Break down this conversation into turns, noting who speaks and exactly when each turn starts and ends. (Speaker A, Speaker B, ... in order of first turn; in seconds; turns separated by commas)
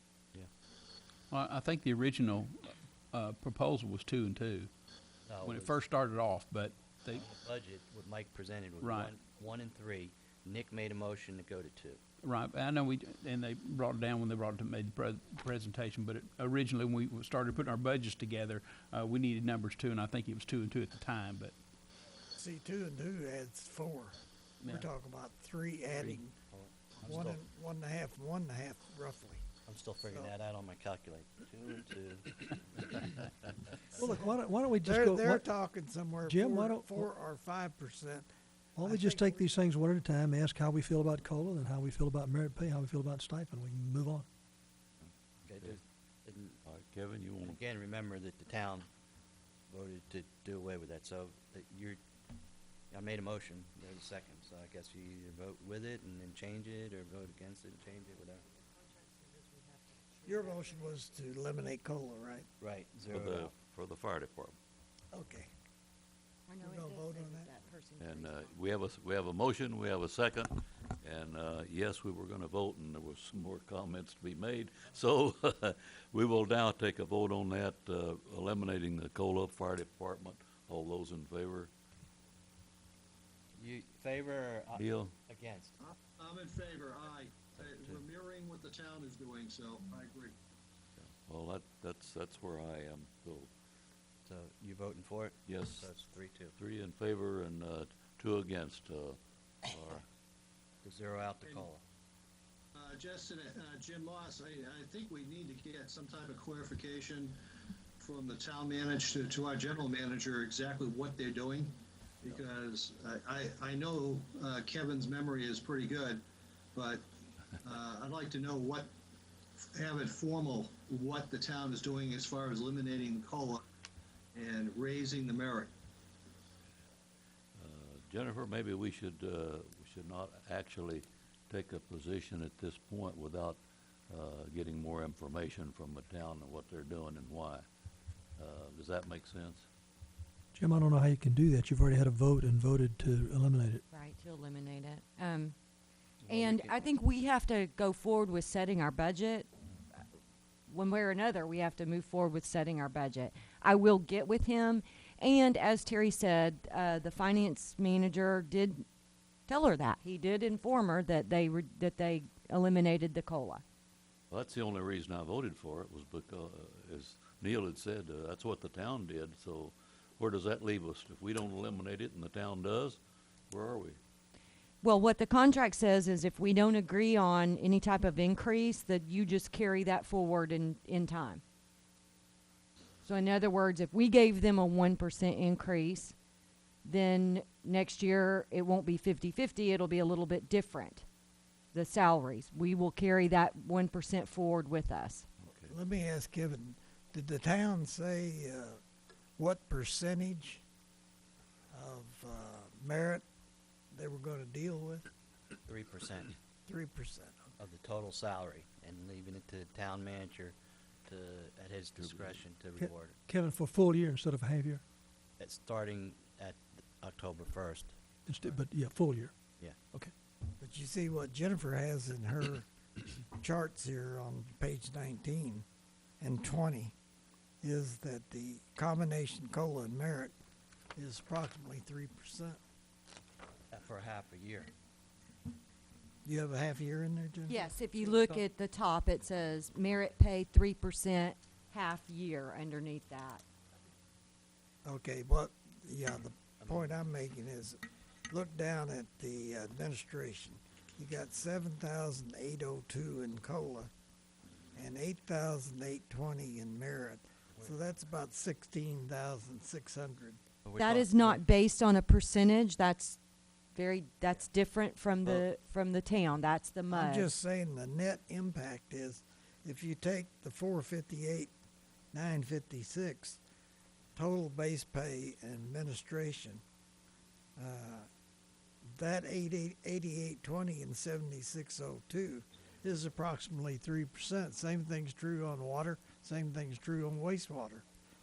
Speaker A: 1.3-4.7, Speaker B: 5.3-5.8, Speaker A: 5.4-7.3, Speaker B: 7.1-12.0, Speaker A: 8.8-9.2, Speaker A: 12.2-21.6, Speaker C: 22.4-26.4, Speaker A: 24.6-24.9, Speaker B: 26.0-27.4, Speaker C: 27.0-29.5, Speaker B: 29.7-33.5, Speaker C: 30.1-30.3, Speaker D: 34.0-35.5, Speaker C: 34.0-38.3, Speaker D: 36.2-37.1, Speaker D: 38.8-44.3, Speaker C: 38.8-39.5, Speaker B: 45.5-46.6, Speaker E: 46.7-47.5, Speaker B: 47.4-48.9, Speaker B: 49.7-52.0, Speaker B: 52.9-58.4, Speaker F: 58.6-60.8, Speaker C: 60.2-62.5, Speaker B: 62.6-63.5, Speaker E: 63.1-64.6, Speaker C: 65.1-65.5, Speaker F: 66.5-68.6, Speaker C: 66.6-67.5, Speaker E: 68.0-81.7, Speaker B: 83.6-85.7, Speaker E: 84.8-85.1, Speaker G: 85.8-90.4, Speaker B: 87.6-88.0, Speaker E: 91.3-93.5, Speaker B: 94.3-96.6, Speaker E: 95.5-95.8, Speaker E: 96.6-99.2, Speaker E: 99.7-100.0, Speaker B: 100.8-101.8, Speaker G: 101.4-101.7, Speaker G: 102.8-107.4, Speaker G: 108.0-116.2, Speaker G: 116.8-117.0, Speaker G: 117.6-118.9, Speaker G: 119.6-123.6, Speaker G: 124.3-125.7, Speaker E: 127.6-133.6, Speaker E: 134.1-137.7, Speaker E: 138.4-139.7, Speaker D: 140.5-143.8, Speaker F: 143.9-145.6, Speaker B: 146.2-146.9, Speaker F: 146.3-149.5, Speaker F: 150.7-158.8, Speaker F: 159.5-163.6, Speaker E: 164.3-173.0, Speaker E: 173.5-174.0, Speaker F: 174.8-181.4, Speaker F: 183.0-186.2, Speaker F: 186.8-191.1, Speaker F: 191.7-195.3, Speaker E: 195.5-195.7, Speaker C: 195.7-198.8, Speaker C: 199.4-200.6, Speaker C: 201.7-203.2, Speaker C: 203.9-205.1, Speaker B: 205.7-206.3, Speaker C: 206.7-207.5, Speaker B: 207.6-213.2, Speaker D: 212.8-214.8, Speaker B: 215.4-218.0, Speaker D: 218.3-219.3, Speaker C: 220.6-222.7, Speaker C: 223.3-225.7, Speaker C: 226.2-226.9, Speaker C: 227.6-230.3, Speaker C: 231.0-232.6, Speaker B: 233.7-234.7, Speaker C: 236.2-237.7, Speaker F: 237.5-243.4, Speaker C: 244.8-253.9, Speaker B: 246.6-246.9, Speaker C: 254.8-260.4, Speaker B: 260.6-261.4, Speaker F: 260.8-263.2, Speaker F: 263.7-267.3, Speaker C: 266.9-271.5, Speaker C: 272.1-273.4, Speaker C: 274.2-276.6, Speaker C: 277.6-278.1, Speaker C: 278.9-287.8